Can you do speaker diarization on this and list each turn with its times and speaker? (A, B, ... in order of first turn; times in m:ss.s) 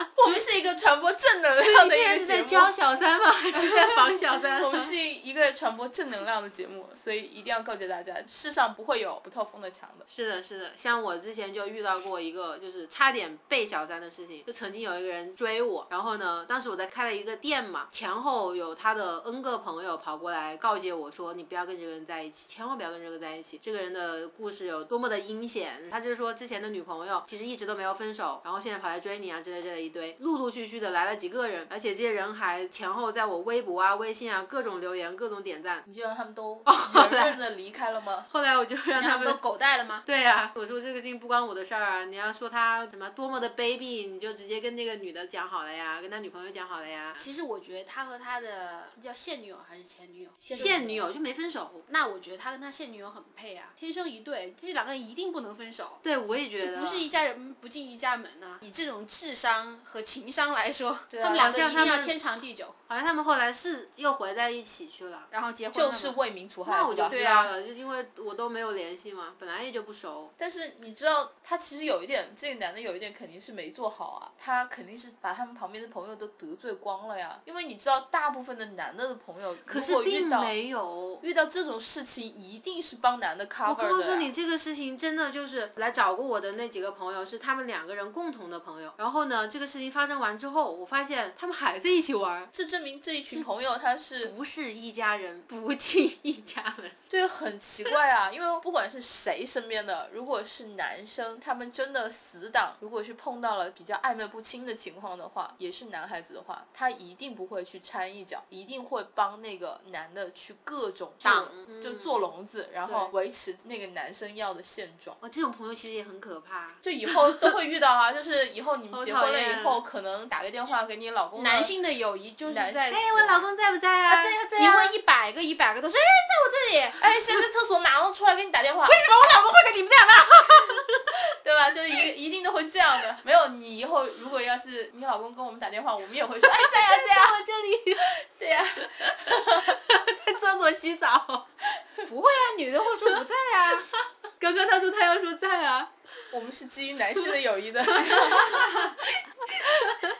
0:00.2-0:02.7 A
0:01.5-0:04.9 B
0:03.7-0:10.1 A
0:10.1-0:35.8 B
0:35.9-0:38.3 A
0:36.6-0:37.4 B
0:38.3-0:39.4 B
0:39.0-0:40.0 C
0:40.1-0:47.3 B
0:47.2-0:50.7 C
0:50.4-0:51.1 A
0:50.5-0:51.8 B
0:51.9-0:56.0 C
0:56.0-0:57.0 B
0:56.6-1:02.8 C
1:01.1-1:01.6 A
1:01.3-1:02.2 B
1:02.9-1:05.3 B
1:05.3-1:06.2 C
1:05.7-1:07.3 A
1:06.6-1:10.3 B
1:07.1-1:07.5 C
1:10.4-1:20.6 A
1:19.7-1:21.2 B
1:21.2-1:24.3 A
1:23.6-1:32.5 B
1:32.5-1:34.3 A
1:34.2-1:37.0 B
1:37.1-1:55.2 A
1:51.2-1:52.2 B
1:52.8-1:53.1 B
1:55.2-1:57.6 B
1:56.8-2:01.7 A
1:58.9-1:59.8 B
2:01.4-2:03.5 C
2:02.4-2:03.4 A
2:02.9-2:05.0 B
2:04.1-2:07.0 C
2:07.0-2:09.0 A
2:08.9-2:10.9 B
2:11.4-2:17.4 A
2:16.4-2:18.2 B
2:18.0-2:19.7 A
2:18.8-2:21.5 B
2:22.1-2:23.8 C
2:24.4-2:25.9 B
2:26.3-2:28.9 A
2:28.1-2:28.9 B
2:29.6-2:30.0 B